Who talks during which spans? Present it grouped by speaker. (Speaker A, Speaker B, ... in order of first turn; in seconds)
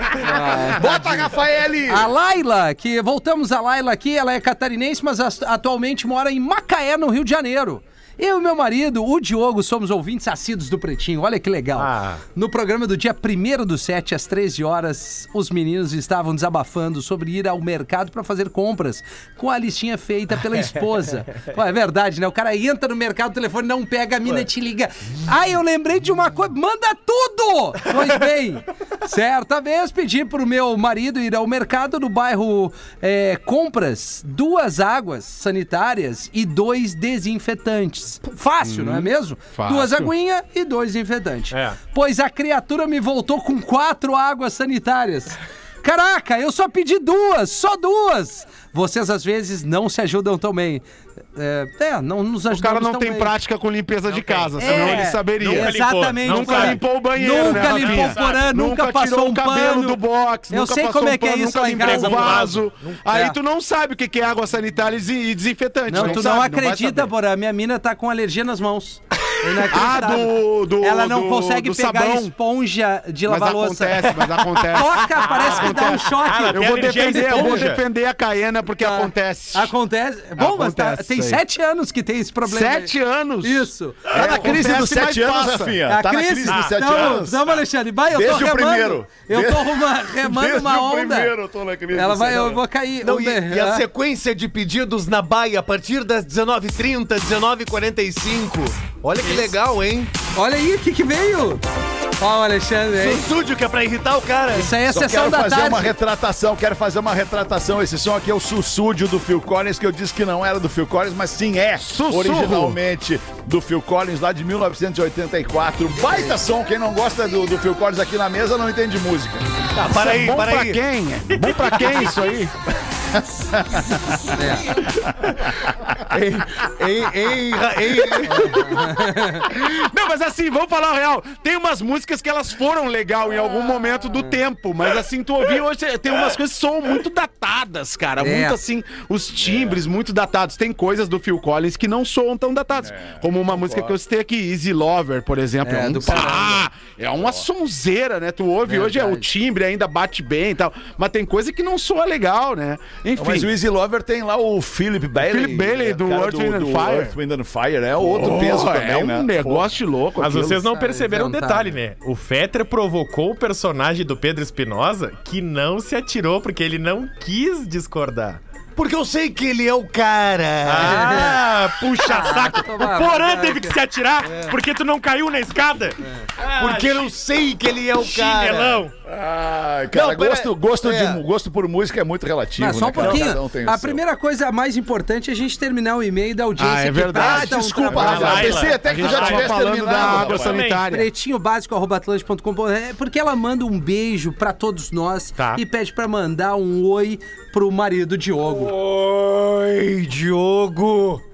Speaker A: 0.2-1.2, 1.9-50.8, 51.3-53.3, 54.6-60.0, 60.5-62.5, 63.1-63.4, 65.9-77.8, 78.8-84.6, 85.9-91.3, 91.9-93.8, 100.3-101.6, 102.2-103.3, 104.5-105.9, 124.3-124.8, 128.3-129.4, 138.2-138.6, 145.6-146.7, 148.7-149.3, 160.7-161.7, 170.8-173.8, 182.6-188.7, 190.9-198.7
Speaker B: 0.2-2.1, 84.1-87.5, 88.1-92.6, 104.8-119.5, 123.1-126.1, 139.4-139.8, 142.8-144.0, 147.2-147.4, 153.1-159.8, 179.1-184.0, 187.1-190.6
Speaker C: 11.8-12.2, 93.0-100.1, 102.9-104.8, 119.7-120.8, 126.0-129.0, 168.8-171.2, 176.4-178.9, 179.9-181.2, 198.6-201.2
Speaker D: 38.6-40.1, 52.5-67.1, 69.7-72.3, 73.3-79.7, 80.4-81.4, 82.4-85.8, 111.8-112.8, 119.9-122.5, 129.3-153.5, 155.2-157.1, 158.0-160.6, 186.6-191.1
Speaker E: 41.5-41.8, 54.0-58.4, 61.6-63.0, 65.9-66.2, 75.3-77.8, 86.5-87.6, 121.3-122.4, 160.2-168.4, 170.6-177.1, 178.0-178.9, 187.9-190.9, 195.4-195.6